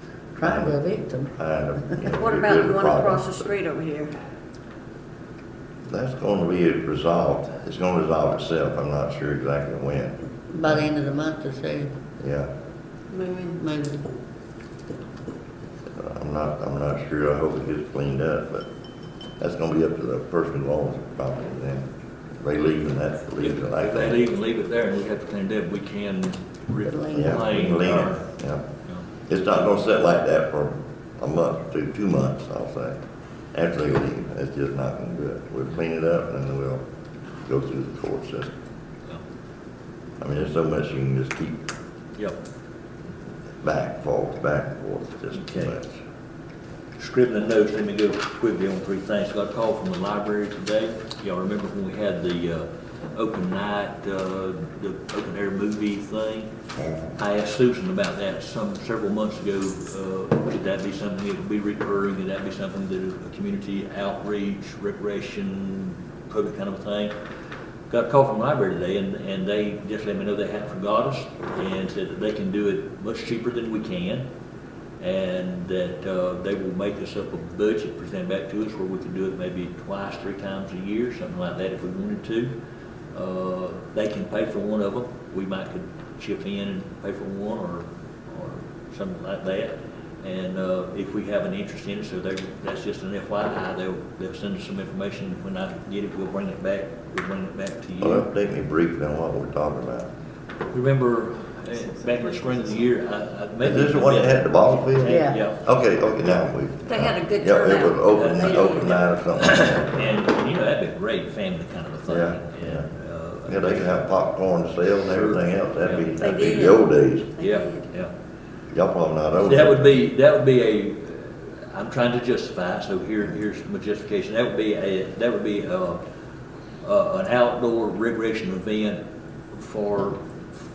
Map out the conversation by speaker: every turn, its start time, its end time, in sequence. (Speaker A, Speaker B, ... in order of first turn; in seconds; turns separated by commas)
Speaker A: 0.4-1.3, Speaker B: 0.4-0.8, Speaker B: 1.4-3.5, Speaker C: 2.1-4.1, Speaker B: 5.9-10.8, Speaker A: 10.5-11.9, Speaker B: 12.2-12.5, Speaker C: 13.1-13.6, Speaker A: 13.6-14.1, Speaker B: 15.9-18.7, Speaker B: 19.4-21.9, Speaker B: 22.4-24.2, Speaker D: 23.4-28.2, Speaker A: 26.9-27.4, Speaker B: 27.1-28.6, Speaker B: 29.3-33.0, Speaker B: 33.5-36.8, Speaker B: 37.5-38.5, Speaker B: 40.2-41.7, Speaker B: 43.6-46.0, Speaker D: 45.3-45.8, Speaker D: 47.0-56.5, Speaker B: 56.8-57.1, Speaker D: 57.2-67.1, Speaker D: 67.9-74.2, Speaker D: 75.0-82.5, Speaker D: 83.1-98.3, Speaker B: 98.0-100.1, Speaker D: 100.7-105.6, Speaker B: 103.6-110.0, Speaker A: 105.0-105.4, Speaker C: 106.9-109.0, Speaker D: 108.1-114.1, Speaker B: 112.1-112.9, Speaker B: 113.5-117.3, Speaker D: 114.9-116.5, Speaker C: 116.2-117.9, Speaker D: 117.4-118.1, Speaker B: 118.7-119.8, Speaker D: 119.4-126.0, Speaker D: 126.8-129.0, Speaker D: 129.5-130.4